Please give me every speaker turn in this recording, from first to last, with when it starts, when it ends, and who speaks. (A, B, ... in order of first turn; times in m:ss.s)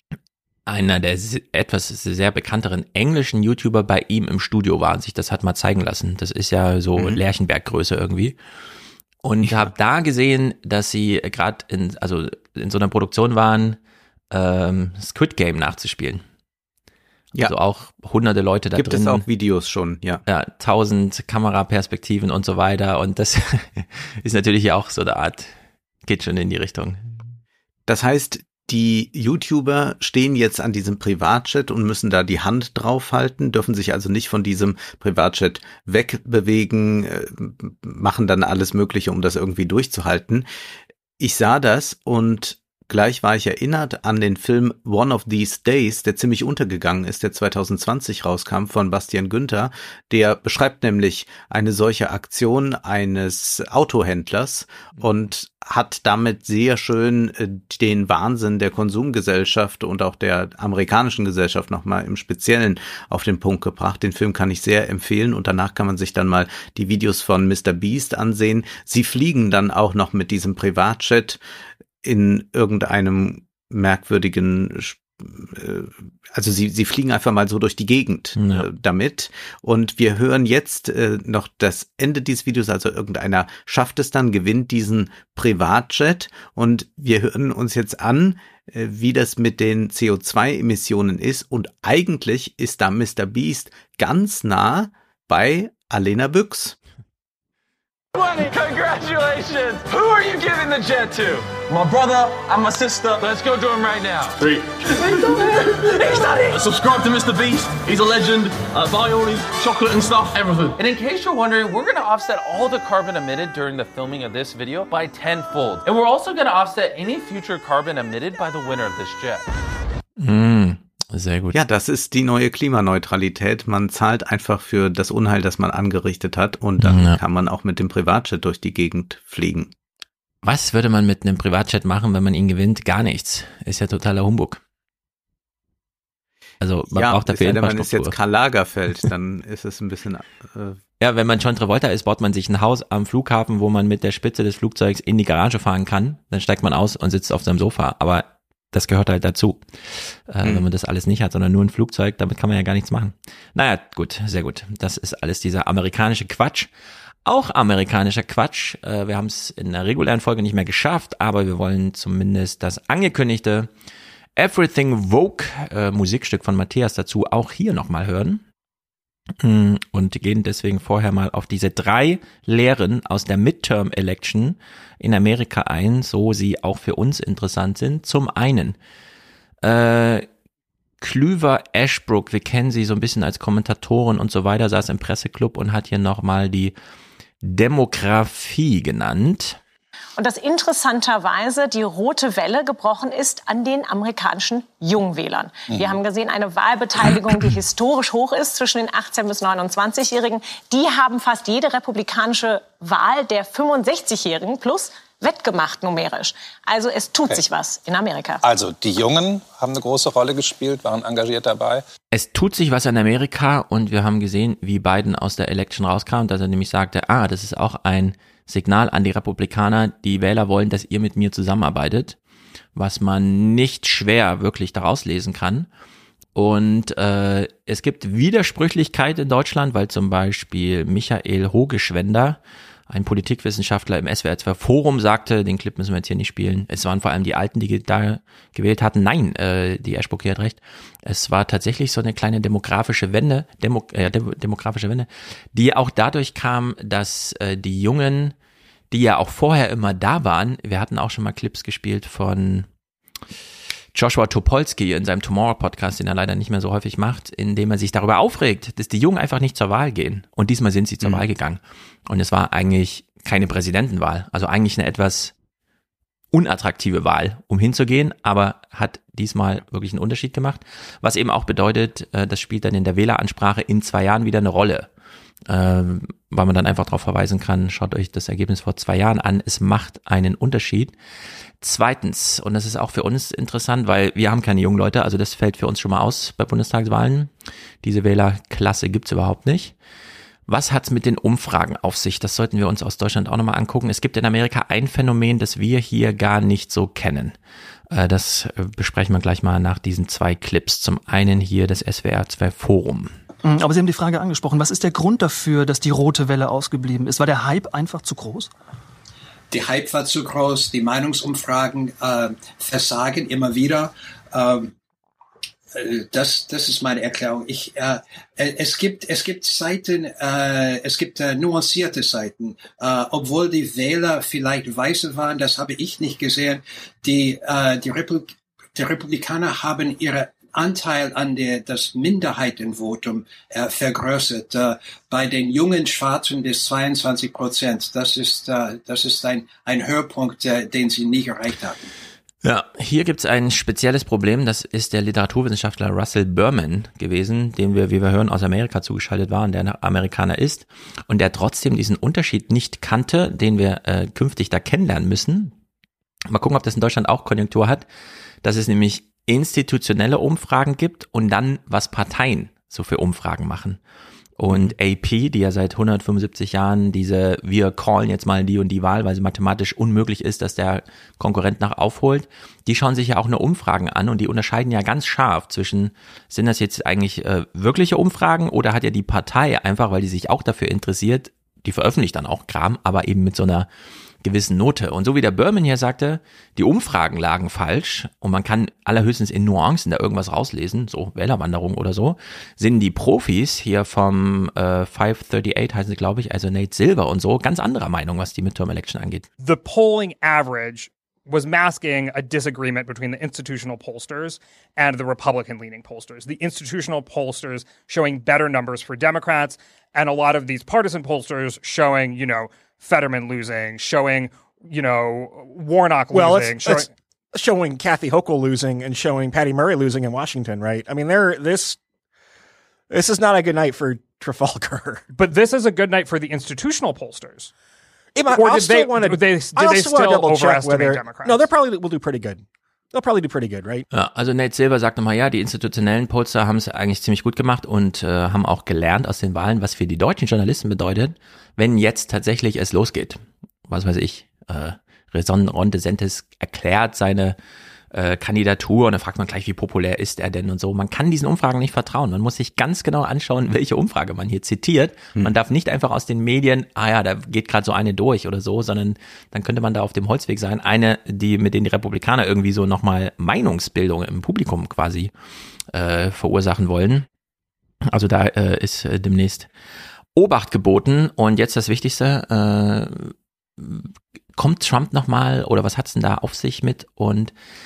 0:00.7-0:08.4 A
0:09.2-0:13.8 A
0:14.3-0:16.2 A
0:17.4-0:19.2 A
0:18.8-0:20.2 B
0:20.3-0:25.5 A
0:26.0-0:27.3 A
0:27.9-0:40.5 B
0:41.2-1:11.4 B
1:12.0-1:36.8 B
1:18.4-1:18.7 A
1:38.2-1:41.5 C
1:41.6-1:43.2 D
1:43.2-1:44.4 C
1:44.4-1:45.4 D
1:45.0-1:46.6 C
1:46.5-1:50.8 D
1:50.8-1:59.5 C
2:00.2-2:01.6 A
2:01.5-2:09.7 B
2:06.8-2:07.2 A
2:10.4-2:14.6 A
2:16.6-2:18.2 A
2:16.9-2:20.8 B
2:21.0-2:29.6 A
2:30.3-2:36.7 A
2:37.2-2:43.7 A
2:44.4-2:48.4 A
2:49.4-2:58.8 A
2:59.6-3:00.3 A
3:01.0-3:06.8 A
3:07.4-3:09.6 A
3:10.2-3:28.4 E
3:28.4-3:31.8 F
3:32.1-3:42.2 A
3:42.8-3:45.7 A
3:46.4-4:08.4 A
4:08.9-4:12.7 A
4:13.9-4:25.3 A
4:26.3-4:34.9 A
4:35.5-4:41.0 A
4:41.6-4:47.3 A
4:47.8-4:49.8 A
4:50.5-4:57.4 A
4:57.9-5:03.1 A
5:03.4-5:08.5 G
5:09.5-5:14.7 H
5:15.7-5:41.9 H
5:42.4-5:55.5 A
5:56.3-5:57.9 A
5:58.4-6:03.8 A
6:04.4-6:23.7 A
6:24.2-6:39.3 A
6:39.4-6:56.9 I
6:56.1-7:01.8 J
7:02.9-7:05.0 J
7:05.1-7:07.5 I
7:08.2-7:13.8 J
7:08.2-7:11.4 I
7:13.9-7:27.4 A
7:27.9-7:45.1 A
7:45.7-7:47.1 A
7:47.9-7:49.5 A
7:50.2-7:57.3 A